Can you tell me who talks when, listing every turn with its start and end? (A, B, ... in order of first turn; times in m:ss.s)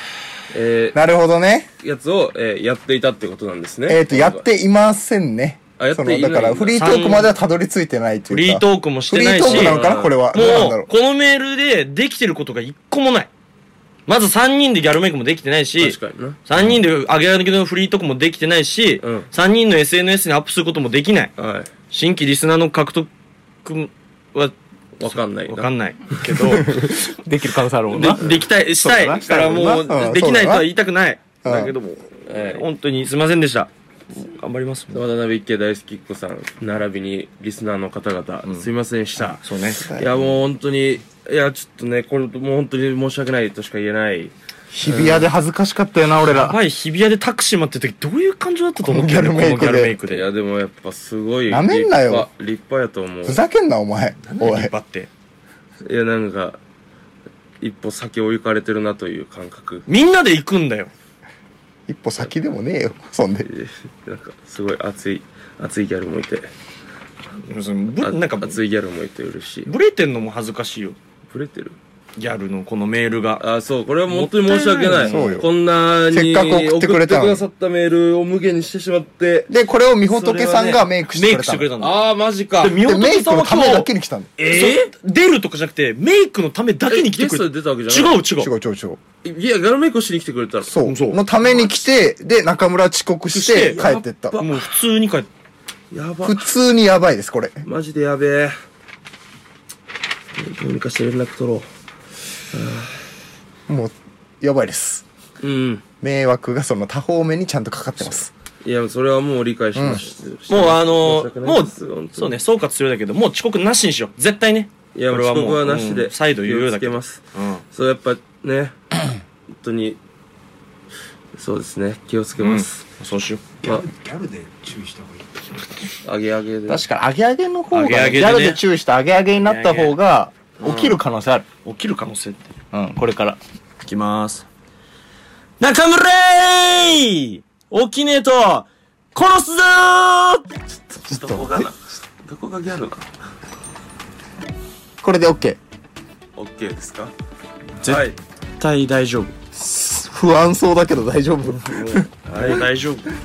0:00.5-0:01.0 A
0:00.9-0:01.7 B
0:01.8-0:04.4 A
0:03.9-0:10.9 B
0:05.8-0:06.9 A
0:06.8-0:07.3 C
0:08.3-0:09.8 C
0:09.4-0:10.4 A
0:10.3-0:13.3 C
0:14.1-0:21.3 C
0:15.8-0:16.4 A
0:19.0-0:19.3 A
0:21.4-0:21.7 A
0:21.9-0:23.1 C
0:23.6-0:24.6 C
0:25.0-0:25.7 A
0:25.1-0:26.8 C
0:26.4-0:30.7 B
0:27.9-0:35.0 C
0:31.4-0:31.7 B
0:32.3-0:32.7 A
0:34.9-0:45.3 A
0:39.4-0:39.9 C
0:39.8-0:40.3 B
0:44.7-0:46.6 B
0:46.3-0:50.3 C
0:48.8-0:50.0 B
0:50.1-0:53.4 A
0:51.5-0:52.3 B
0:53.2-0:54.7 B
0:54.2-0:55.1 C
0:55.8-0:56.6 A
0:57.6-0:59.8 A
0:59.9-1:00.9 C
1:01.9-1:03.5 B
1:03.4-1:06.5 A
1:07.4-1:08.6 C
1:08.0-1:09.7 A
1:09.7-1:11.0 C
1:11.3-1:11.8 A
1:12.2-1:13.4 C
1:13.4-1:19.5 A
1:14.1-1:15.4 C
1:15.0-1:15.5 B
1:16.1-1:17.4 B
1:19.5-1:21.7 B
1:20.1-1:20.9 A
1:21.1-1:22.0 C
1:21.8-1:22.8 A
1:22.6-1:23.9 C
1:22.8-1:24.3 B
1:24.4-1:24.9 A
1:24.4-1:28.5 C
1:26.9-1:28.2 A
1:28.4-1:29.0 B
1:29.2-1:30.8 A
1:30.6-1:34.4 B
1:30.8-1:31.7 C
1:33.3-1:35.3 C
1:33.6-1:34.6 A
1:35.9-1:36.4 A
1:36.2-1:37.6 B
1:37.6-1:38.6 A
1:40.4-1:41.7 A
1:42.5-1:43.0 A
1:43.7-1:45.0 B
1:45.4-1:45.8 A
1:46.0-1:48.3 B
1:48.0-1:52.4 A
1:49.8-1:50.0 B
1:50.5-1:57.6 C
1:55.0-1:59.0 A
1:59.5-2:00.0 A
2:01.4-2:02.8 A
2:02.4-2:03.4 C
2:03.6-2:05.9 D
2:06.0-2:06.9 A
2:06.7-2:11.5 B
2:07.7-2:08.6 C
2:09.4-2:10.0 C
2:10.6-2:11.0 C
2:11.6-2:13.3 C
2:12.7-2:13.4 B
2:13.8-2:14.5 C
2:15.6-2:20.5 C
2:21.0-2:23.0 A
2:21.1-2:21.7 B
2:25.0-2:25.6 B
2:26.4-2:27.1 A
2:27.8-2:28.2 A
2:28.6-2:29.3 C
2:29.5-2:32.6 B
2:32.3-2:33.1 C
2:32.4-2:32.7 A